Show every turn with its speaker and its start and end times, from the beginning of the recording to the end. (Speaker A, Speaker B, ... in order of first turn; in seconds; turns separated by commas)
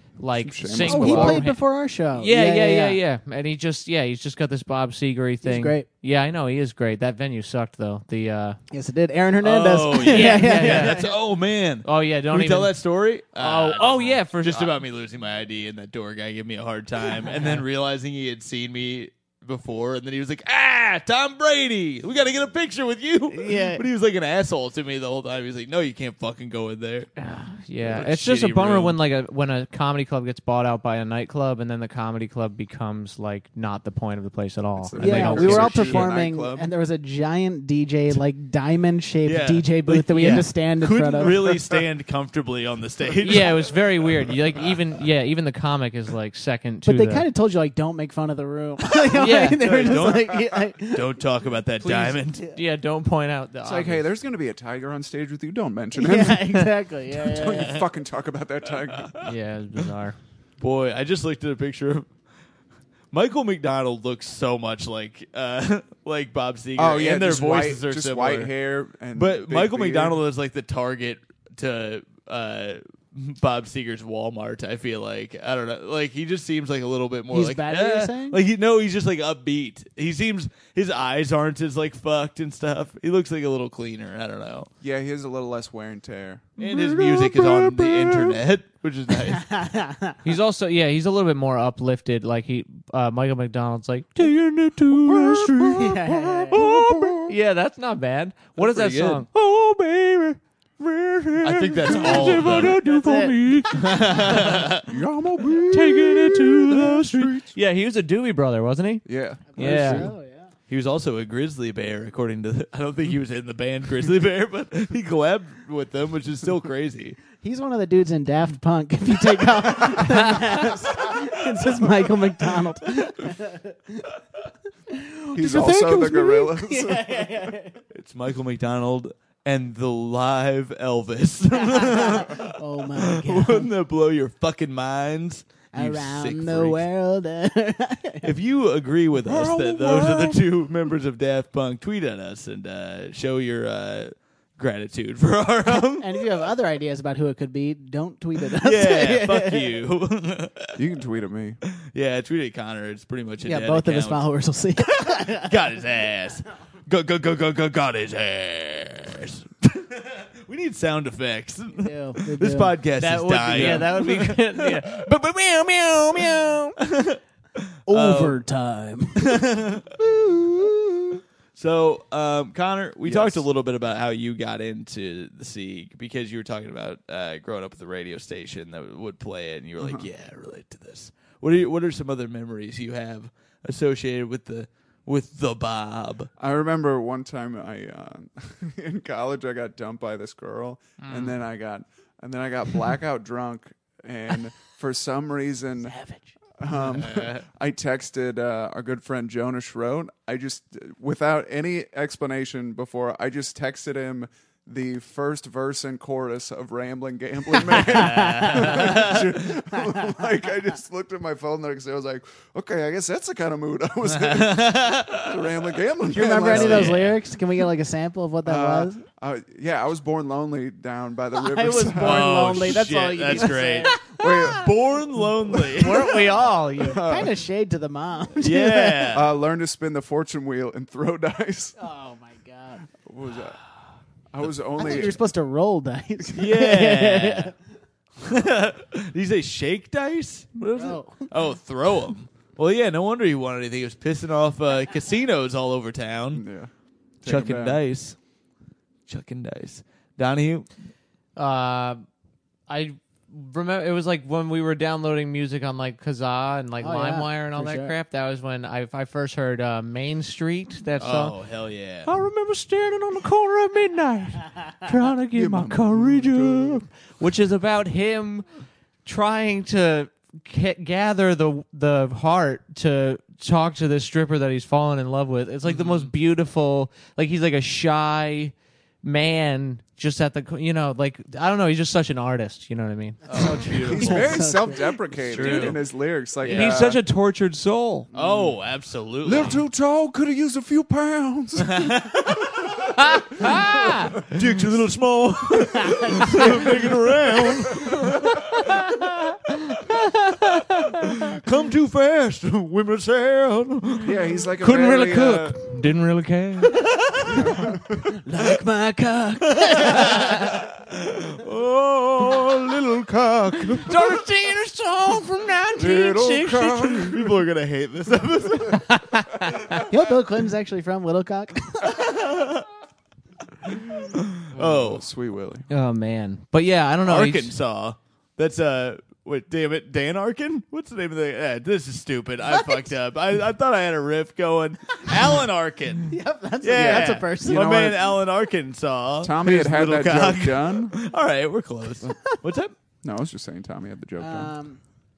Speaker A: 0.2-1.6, Speaker B: 0.4-1.4, Speaker C: 0.8-3.0, Speaker A: 2.1-8.6, Speaker C: 5.4-5.8, Speaker C: 8.7-11.1, Speaker D: 9.4-27.1, Speaker A: 10.0-11.1, Speaker A: 11.8-12.8, Speaker A: 13.3-14.8, Speaker C: 23.3-23.8, Speaker A: 27.2-36.1, Speaker D: 27.8-29.0, Speaker B: 34.8-36.7, Speaker C: 35.0-41.6, Speaker D: 39.2-43.8, Speaker A: 40.1-40.5, Speaker A: 43.2-47.3, Speaker C: 46.9-51.1, Speaker A: 49.1-49.6, Speaker D: 49.6-52.4, Speaker A: 51.8-54.1, Speaker B: 53.6-59.1, Speaker C: 56.0-57.8, Speaker D: 58.9-59.3, Speaker A: 59.2-60.2, Speaker D: 60.6-62.1, Speaker D: 63.1-68.5, Speaker B: 66.8-70.2, Speaker D: 69.1-84.7, Speaker C: 77.3-78.4, Speaker B: 84.8-86.5, Speaker A: 86.6-88.4, Speaker D: 86.6-89.5, Speaker C: 89.3-90.2, Speaker A: 90.2-104.7, Speaker C: 95.5-96.6, Speaker B: 96.6-97.3, Speaker D: 98.6-99.2, Speaker D: 101.4-102.8, Speaker C: 101.9-103.7, Speaker D: 103.7-104.9, Speaker B: 104.8-107.5, Speaker A: 105.7-110.1, Speaker B: 109.1-109.9, Speaker C: 109.5-110.5, Speaker D: 109.6-110.1, Speaker D: 110.7-117.2, Speaker C: 117.4-124.1, Speaker C: 124.9-127.8, Speaker B: 125.3-127.3, Speaker D: 127.9-136.8, Speaker C: 131.6-133.7, Speaker C: 135.7-138.3, Speaker D: 138.2-146.2, Speaker B: 139.3-140.3, Speaker C: 145.7-149.8, Speaker D: 148.5-150.8, Speaker B: 150.8-151.6, Speaker D: 151.8-154.2, Speaker C: 153.4-155.6, Speaker D: 154.8-165.1, Speaker C: 161.8-162.7, Speaker A: 163.0-166.8, Speaker C: 163.5-163.8, Speaker D: 166.1-168.4, Speaker C: 167.9-171.2, Speaker D: 169.2-169.8, Speaker D: 171.6-186.3, Speaker B: 173.1-173.4, Speaker B: 179.8-180.1, Speaker B: 186.4-196.0, Speaker C: 195.9-196.3, Speaker B: 196.6-217.0, Speaker D: 196.7-197.4, Speaker C: 207.7-209.2, Speaker D: 207.8-209.3, Speaker C: 209.7-210.2, Speaker D: 214.1-215.4, Speaker C: 216.1-219.0, Speaker D: 216.5-217.2, Speaker B: 218.4-222.8, Speaker C: 221.4-224.3, Speaker D: 221.9-226.2, Speaker B: 224.1-224.7, Speaker A: 225.6-227.1, Speaker B: 226.8-227.4, Speaker C: 226.9-229.2, Speaker D: 228.4-229.3, Speaker B: 229.1-231.8, Speaker C: 231.8-232.8, Speaker B: 233.0-233.6, Speaker B: 234.3-235.2, Speaker C: 234.8-237.6, Speaker D: 236.3-237.5, Speaker D: 238.2-246.4, Speaker C: 240.8-241.3, Speaker B: 246.3-246.7, Speaker B: 247.2-247.8, Speaker D: 247.2-248.2, Speaker D: 249.1-250.7, Speaker A: 251.4-252.0, Speaker A: 252.7-261.4, Speaker C: 256.8-257.9, Speaker D: 261.0-262.1, Speaker A: 262.1-268.5, Speaker B: 265.3-266.8, Speaker A: 269.1-284.3, Speaker D: 275.7-276.1, Speaker D: 283.3-284.4, Speaker C: 283.4-285.0, Speaker B: 283.7-287.0, Speaker D: 285.2-285.8, Speaker A: 285.4-285.7, Speaker D: 286.4-286.8, Speaker A: 286.5-288.1, Speaker B: 288.1-288.5, Speaker D: 288.1-289.6, Speaker B: 289.2-294.6, Speaker D: 291.6-292.7, Speaker A: 293.2-294.1, Speaker D: 293.4-298.8, Speaker A: 298.4-301.3, Speaker D: 301.2-304.1, Speaker B: 304.0-305.7, Speaker A: 304.6-306.9, Speaker C: 307.3-307.6, Speaker B: 307.3-308.2, Speaker C: 308.2-310.6, Speaker D: 309.5-314.0, Speaker A: 313.8-317.1, Speaker B: 315.8-317.3, Speaker D: 317.0-318.9, Speaker A: 318.6-319.8, Speaker C: 319.9-322.2, Speaker D: 321.9-322.7, Speaker D: 324.1-325.1, Speaker B: 324.5-325.7, Speaker A: 325.7-327.5, Speaker D: 327.1-342.8, Speaker C: 332.5-332.9, Speaker C: 336.1-338.1, Speaker B: 339.2-341.0, Speaker B: 343.0-344.5, Speaker C: 344.2-344.8